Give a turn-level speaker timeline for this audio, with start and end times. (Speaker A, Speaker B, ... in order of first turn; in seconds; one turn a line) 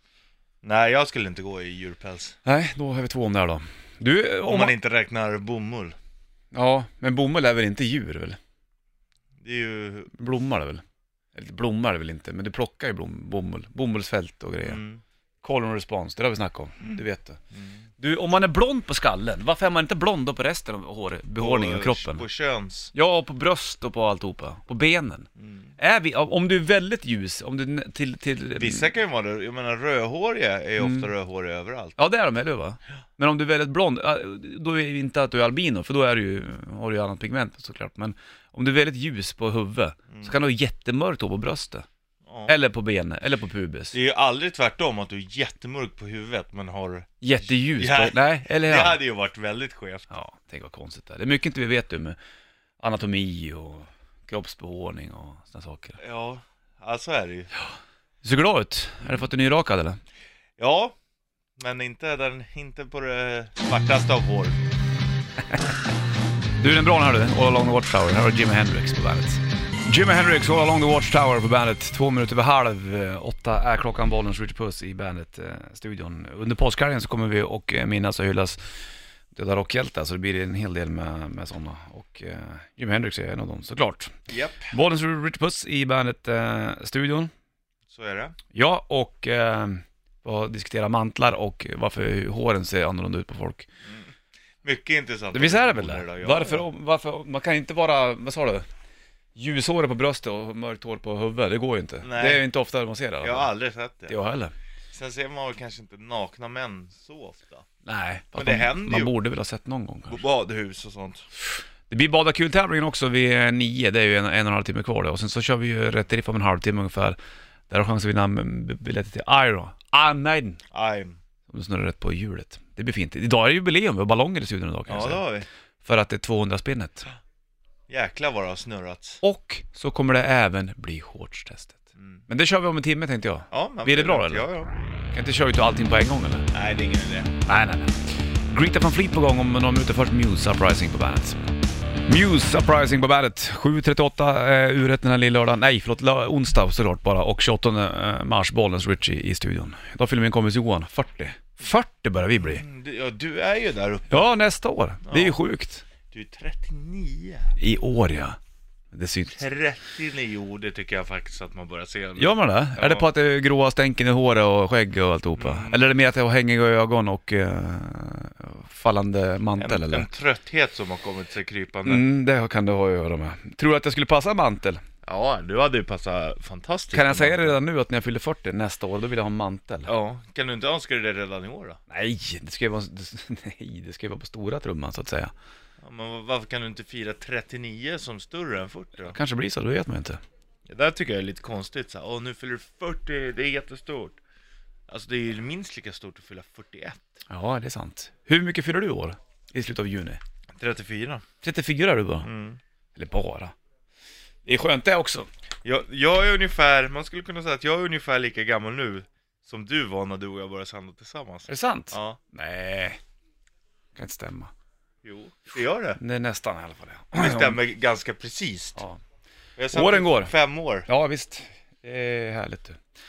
Speaker A: 0.6-2.4
Speaker B: 2.4-4.7
Speaker A: 4.4-6.0
Speaker B: 6.5-8.4
Speaker A: 9.4-10.1
Speaker B: 10.1-10.8
Speaker B: 11.3-14.8
Speaker A: 14.6-15.0
Speaker B: 15.4-17.4
Speaker A: 17.5-17.8
Speaker B: 18.0-22.2
Speaker A: 21.4-22.9
Speaker B: 22.9-25.3
Speaker A: 25.4-25.7
Speaker B: 25.8-28.9
Speaker A: 28.6-32.0
Speaker B: 30.8-31.1
Speaker B: 32.0-41.9
Speaker A: 40.1-40.3
Speaker A: 42.3-42.5
Speaker B: 42.5-44.0
Speaker A: 43.9-50.1
Speaker B: 47.2-49.0
Speaker B: 50.1-52.2
Speaker B: 52.8-56.0
Speaker A: 56.0-57.5
Speaker B: 58.2-60.0
Speaker A: 60.6-60.9
Speaker A: 61.6-64.6
Speaker B: 66.6-78.6
Speaker B: 79.3-87.3
Speaker A: 84.3-84.7
Speaker A: 87.9-88.3
Speaker B: 88.5-93.7
Speaker A: 93.8-96.6
Speaker B: 95.3-98.6
Speaker B: 99.3-103.5
Speaker A: 102.0-102.4
Speaker A: 103.2-104.1
Speaker B: 104.1-104.5
Speaker A: 104.9-107.6
Speaker B: 107.8-110.2
Speaker A: 108.3-109.1
Speaker A: 110.1-111.2
Speaker B: 111.9-117.2
Speaker B: 117.7-120.6
Speaker A: 120.7-121.2
Speaker B: 121.5-125.2
Speaker A: 124.9-125.5
Speaker B: 125.8-127.1
Speaker A: 127.9-129.2
Speaker B: 129.2-134.5
Speaker A: 132.0-132.2
Speaker A: 133.5-134.7
Speaker B: 135.1-136.5
Speaker A: 136.5-137.3
Speaker B: 137.4-141.4
Speaker B: 142.1-152.6
Speaker A: 152.4-154.3
Speaker B: 154.1-155.8
Speaker A: 155.1-155.4
Speaker A: 156.1-157.5
Speaker B: 157.6-158.4
Speaker B: 158.9-159.4
Speaker A: 159.3-163.1
Speaker B: 162.2-170.1
Speaker A: 165.3-165.8
Speaker A: 169.6-172.0
Speaker B: 171.8-174.8
Speaker A: 175.0-177.6
Speaker B: 176.9-179.9
Speaker A: 179.9-181.8
Speaker B: 181.9-185.3
Speaker A: 185.8-189.2
Speaker B: 189.0-190.2
Speaker A: 190.7-194.2
Speaker A: 194.9-197.1
Speaker B: 197.3-200.2
Speaker A: 200.6-201.2
Speaker B: 201.4-202.3
Speaker A: 202.2-202.6
Speaker B: 202.9-203.5
Speaker B: 204.4-205.3
Speaker A: 205.6-212.2
Speaker B: 211.5-213.0
Speaker B: 213.9-214.5
Speaker A: 215.0-216.0
Speaker B: 216.0-217.6
Speaker A: 217.2-218.8
Speaker A: 219.6-220.9
Speaker B: 219.7-220.3
Speaker B: 220.9-222.8